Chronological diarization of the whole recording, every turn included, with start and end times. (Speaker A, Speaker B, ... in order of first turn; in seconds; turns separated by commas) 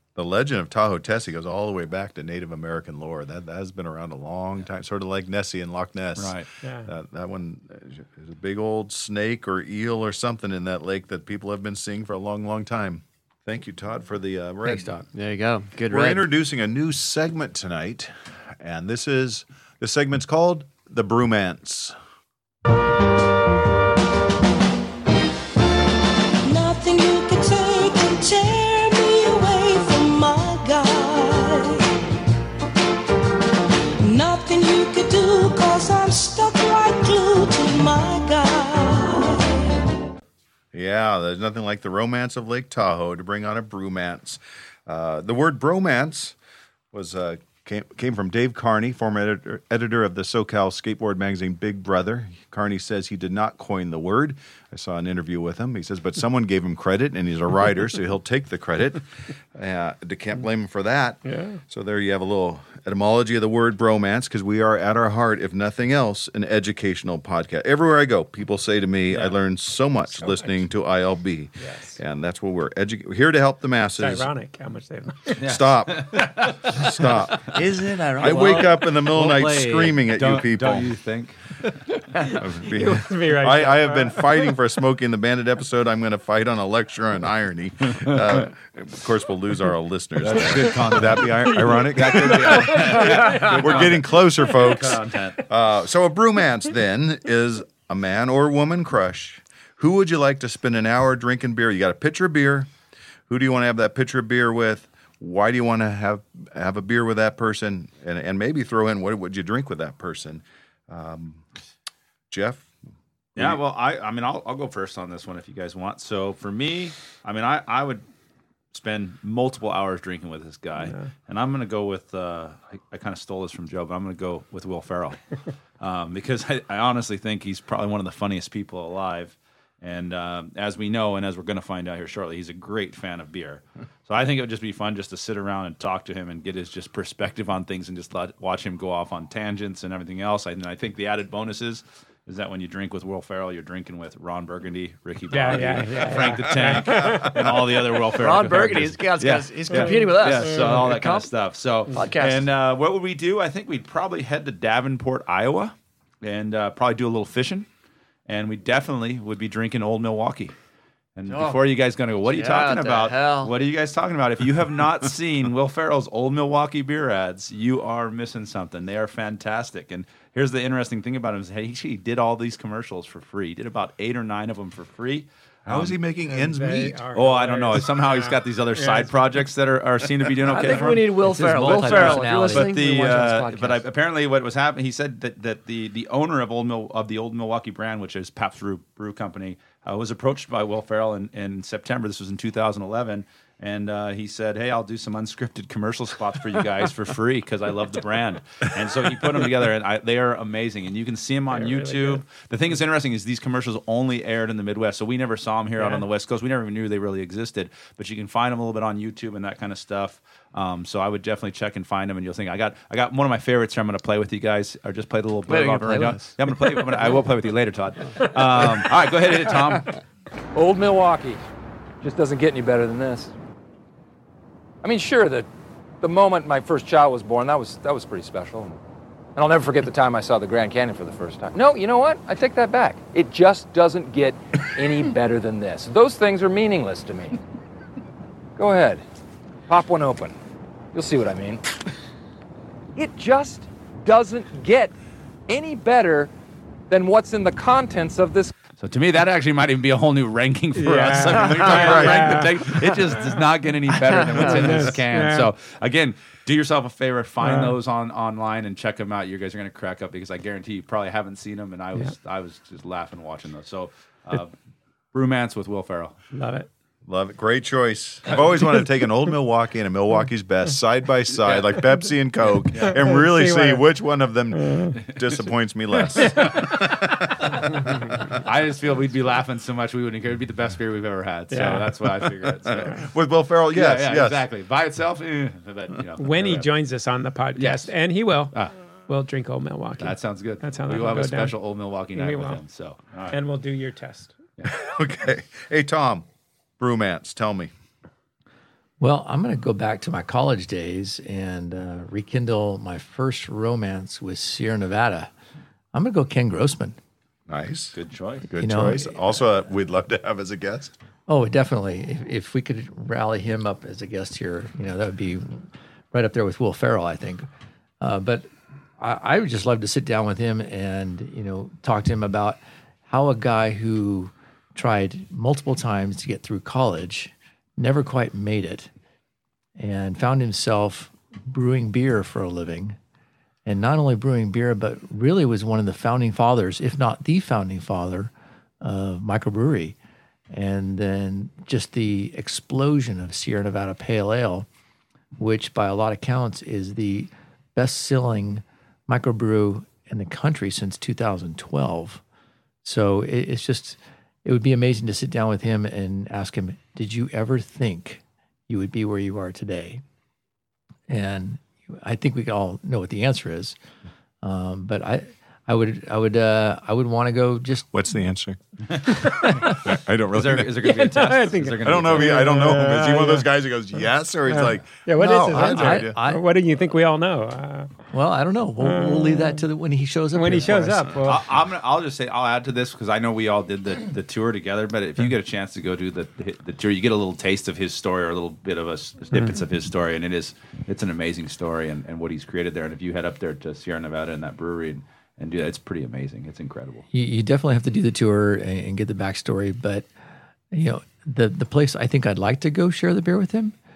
Speaker A: 0.1-14.9, Speaker B: 6.2-6.5, Speaker C: 6.6-6.9, Speaker D: 14.6-15.1, Speaker E: 15.1-16.3, Speaker A: 15.9-21.9, Speaker F: 26.4-31.9, Speaker F: 34.0-39.8, Speaker A: 40.7-46.4, Speaker A: 46.9-74.3, Speaker C: 61.3-61.6, Speaker C: 71.6-72.0, Speaker C: 74.0-75.4, Speaker B: 75.4-76.8, Speaker A: 75.4-77.5, Speaker E: 77.5-78.8, Speaker A: 78.2-81.0, Speaker B: 78.2-81.4, Speaker C: 82.2-84.4, Speaker A: 82.3-102.7, Speaker B: 90.2-95.4, Speaker C: 92.7-92.9, Speaker A: 103.3-111.4, Speaker A: 112.3-112.7, Speaker B: 113.4-118.0, Speaker B: 118.7-125.2, Speaker B: 125.8-157.7, Speaker C: 145.3-147.5, Speaker A: 147.0-147.3, Speaker E: 148.2-151.3, Speaker E: 151.9-152.5, Speaker B: 158.3-160.5, Speaker B: 161.2-176.0, Speaker E: 161.3-161.6, Speaker E: 162.2-163.5, Speaker A: 175.7-177.0, Speaker C: 176.3-179.1, Speaker B: 177.1-219.9, Speaker E: 180.5-183.8, Speaker D: 181.2-182.7, Speaker C: 201.5-202.2, Speaker E: 215.5-216.4, Speaker G: 220.5-221.4, Speaker G: 222.0-223.3, Speaker G: 224.8-225.5, Speaker G: 226.0-228.8, Speaker G: 229.3-237.4, Speaker G: 238.6-239.0, Speaker G: 239.7-240.4, Speaker G: 240.9-241.6, Speaker G: 242.9-244.9, Speaker G: 245.5-246.3, Speaker G: 246.9-248.5, Speaker B: 248.8-264.5, Speaker C: 250.8-252.7, Speaker A: 251.7-252.5, Speaker E: 254.1-254.8, Speaker C: 254.1-255.5, Speaker C: 257.4-257.8, Speaker B: 265.1-266.2, Speaker C: 266.3-266.7, Speaker A: 267.1-277.2, Speaker C: 272.9-273.8, Speaker C: 274.6-274.9, Speaker C: 276.4-276.6, Speaker B: 276.4-276.7, Speaker B: 278.3-283.1, Speaker C: 281.5-281.9, Speaker A: 282.7-284.5, Speaker B: 283.7-286.7, Speaker C: 286.2-288.6, Speaker B: 287.6-287.9, Speaker C: 289.1-291.6, Speaker B: 290.0-293.4, Speaker C: 292.1-292.6, Speaker C: 293.3-294.4, Speaker A: 294.6-296.2, Speaker A: 296.8-297.7, Speaker D: 299.0-305.3, Speaker D: 305.9-307.0, Speaker A: 307.5-310.9, Speaker B: 307.9-308.5, Speaker D: 308.6-309.4, Speaker D: 311.3-317.5, Speaker D: 318.0-328.9, Speaker D: 329.8-333.0, Speaker D: 333.7-340.0, Speaker D: 340.5-344.7, Speaker D: 345.4-352.2, Speaker D: 352.8-360.0, Speaker D: 361.1-363.8, Speaker D: 364.4-367.9, Speaker A: 367.9-368.6, Speaker B: 368.9-369.3, Speaker A: 369.2-370.7, Speaker C: 369.2-369.8, Speaker B: 370.3-372.5, Speaker C: 370.8-373.5, Speaker A: 371.9-376.2, Speaker C: 374.5-377.9, Speaker D: 375.2-376.5, Speaker D: 378.1-381.1, Speaker C: 378.8-379.6, Speaker C: 380.3-381.4, Speaker B: 381.3-397.1, Speaker D: 397.1-400.1, Speaker D: 400.7-403.7